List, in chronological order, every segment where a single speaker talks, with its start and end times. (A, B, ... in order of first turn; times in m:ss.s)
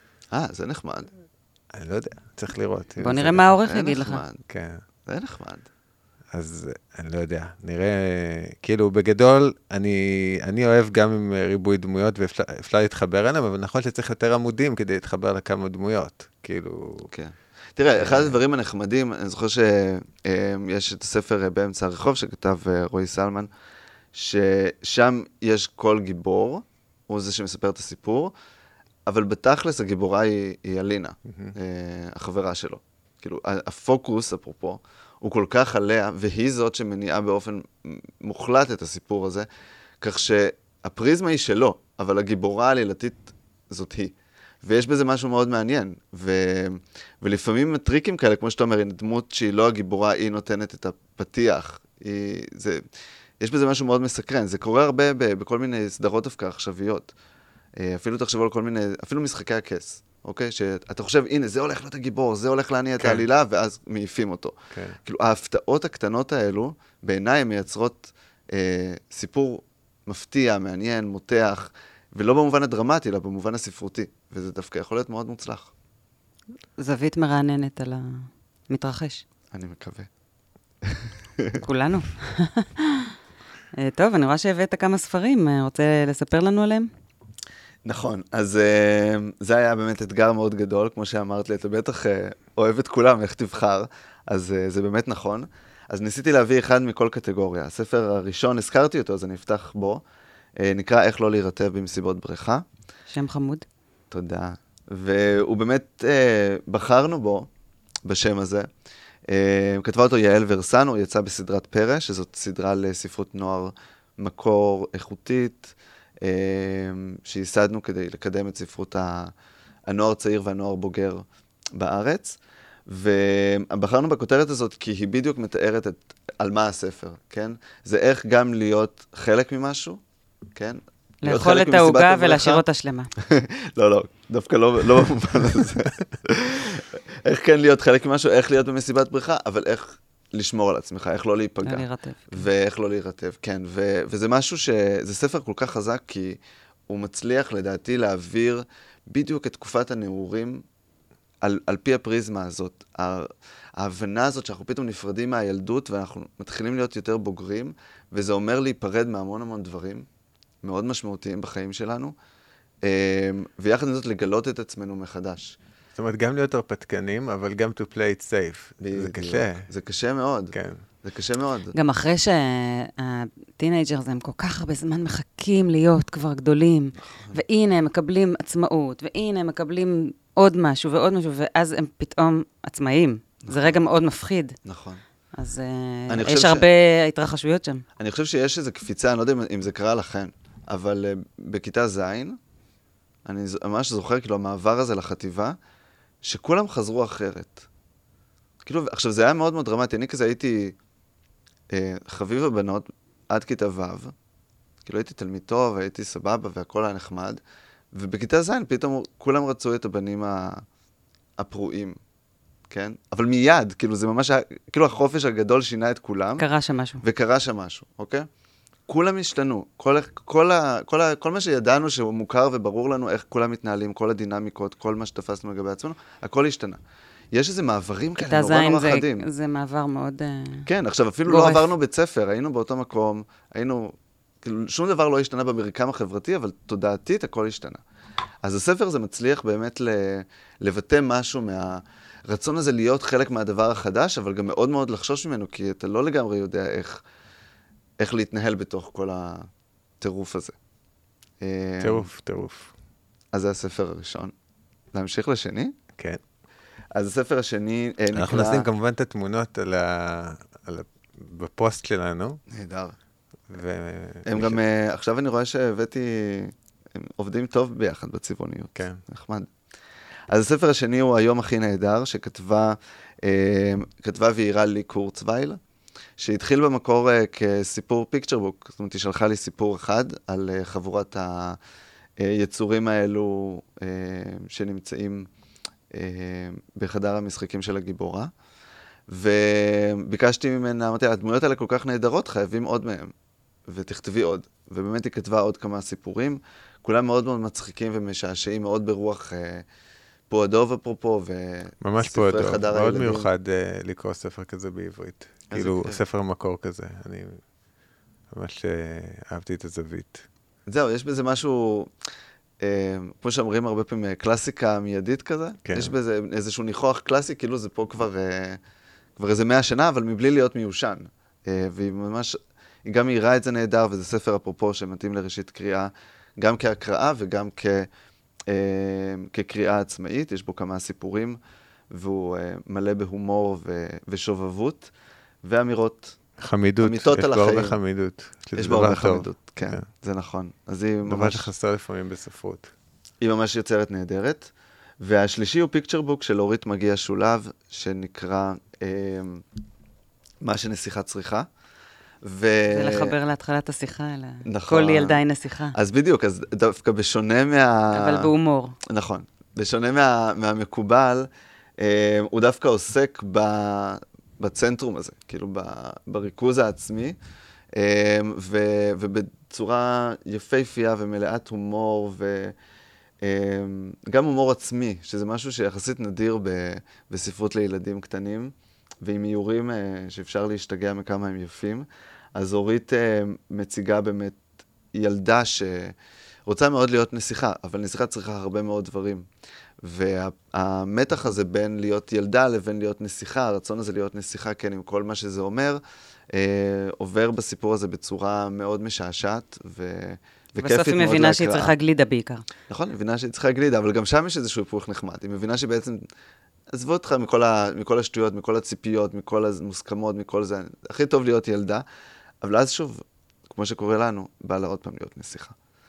0:00.3-0:01.1 A
0:01.7-0:03.5 B
0:03.0-0:04.2 C
0:03.6-0:04.4 A
0:04.5-0:04.8 B
0:05.1-0:05.7 A
0:06.3-0:17.1 B
0:17.1-0:23.5 A
0:18.0-0:18.3 B
0:24.1-0:28.3 A
0:29.1-0:39.5 A
0:31.3-0:31.6 B
0:40.0-0:52.8 A
0:53.4-0:57.1 A
0:57.8-1:15.7 A
1:03.0-1:03.3 B
1:04.7-1:05.0 B
1:16.8-1:19.2 C
1:19.5-1:20.1 A
1:20.8-1:21.6 A
1:21.6-1:23.1 C
1:23.8-1:26.9 C
1:27.8-1:40.0 A
1:40.6-1:42.6 A
1:43.1-1:43.6 C
1:44.1-1:47.5 A
1:48.0-1:48.7 A
1:49.3-1:59.3 A
1:59.9-2:12.6 A
2:11.2-2:13.1 C
2:13.2-2:30.6 A
2:21.6-2:22.5 C
2:31.4-2:40.1 A
2:40.6-2:42.2 A
2:42.8-2:45.6 A
2:46.0-2:49.7 B
2:48.8-2:51.7 A
2:50.5-2:50.8 B
2:51.7-3:04.6 C
2:57.0-2:57.4 A
3:03.4-3:03.8 A
3:04.6-3:05.0 A
3:05.4-3:07.8 C
3:06.1-3:06.7 A
3:08.0-3:12.4 A
3:13.2-3:15.6 A
3:16.2-3:17.7 A
3:18.6-3:20.8 A
3:21.7-3:24.1 A
3:24.8-3:27.4 A
3:27.9-3:30.6 A
3:31.4-3:32.0 A
3:32.7-3:36.5 A
3:36.4-3:37.0 C
3:37.0-3:38.3 A
3:38.9-3:46.8 A
3:47.3-3:49.3 A
3:48.2-3:50.7 C
3:50.7-3:57.8 A
3:51.3-3:51.7 C
3:58.4-4:07.0 A
4:08.0-4:09.5 A
4:10.0-4:10.6 A
4:11.4-4:12.1 A
4:11.8-4:12.7 B
4:13.3-4:14.3 A
4:14.9-4:15.8 A
4:17.0-4:18.7 A
4:18.2-4:22.4 B
4:22.5-4:23.0 A
4:23.5-4:24.6 B
4:24.3-4:29.5 A
4:30.3-4:35.6 A
4:36.2-4:41.6 A
4:42.2-4:45.3 A
4:45.9-4:48.3 A
4:49.1-4:53.1 A
4:53.7-4:59.7 A
5:00.3-5:03.3 A
5:01.8-5:07.4 B
5:05.5-5:06.0 A
5:08.3-5:10.2 B
5:10.7-5:11.9 A
5:12.6-5:18.6 A
5:15.7-5:15.9 B
5:19.2-5:27.9 A
5:28.5-5:31.4 A
5:31.9-5:34.9 A
5:35.4-5:36.2 A
5:36.4-5:39.9 B
5:36.8-5:37.8 A
5:38.6-5:41.5 A
5:41.1-5:42.7 B
5:43.2-5:49.4 A
5:50.4-5:51.5 A
5:52.2-5:53.2 A
5:52.7-5:55.8 C
5:54.4-5:55.2 A
5:55.7-5:58.3 A
5:57.9-5:58.8 C
5:58.8-6:07.2 A
6:07.7-6:12.6 A
6:13.2-6:24.4 A
6:24.9-6:29.3 A
6:29.8-6:35.8 A
6:36.3-6:41.7 A
6:40.6-6:42.5 C
6:42.7-6:46.1 A
6:46.7-6:51.8 A
6:52.4-6:55.6 A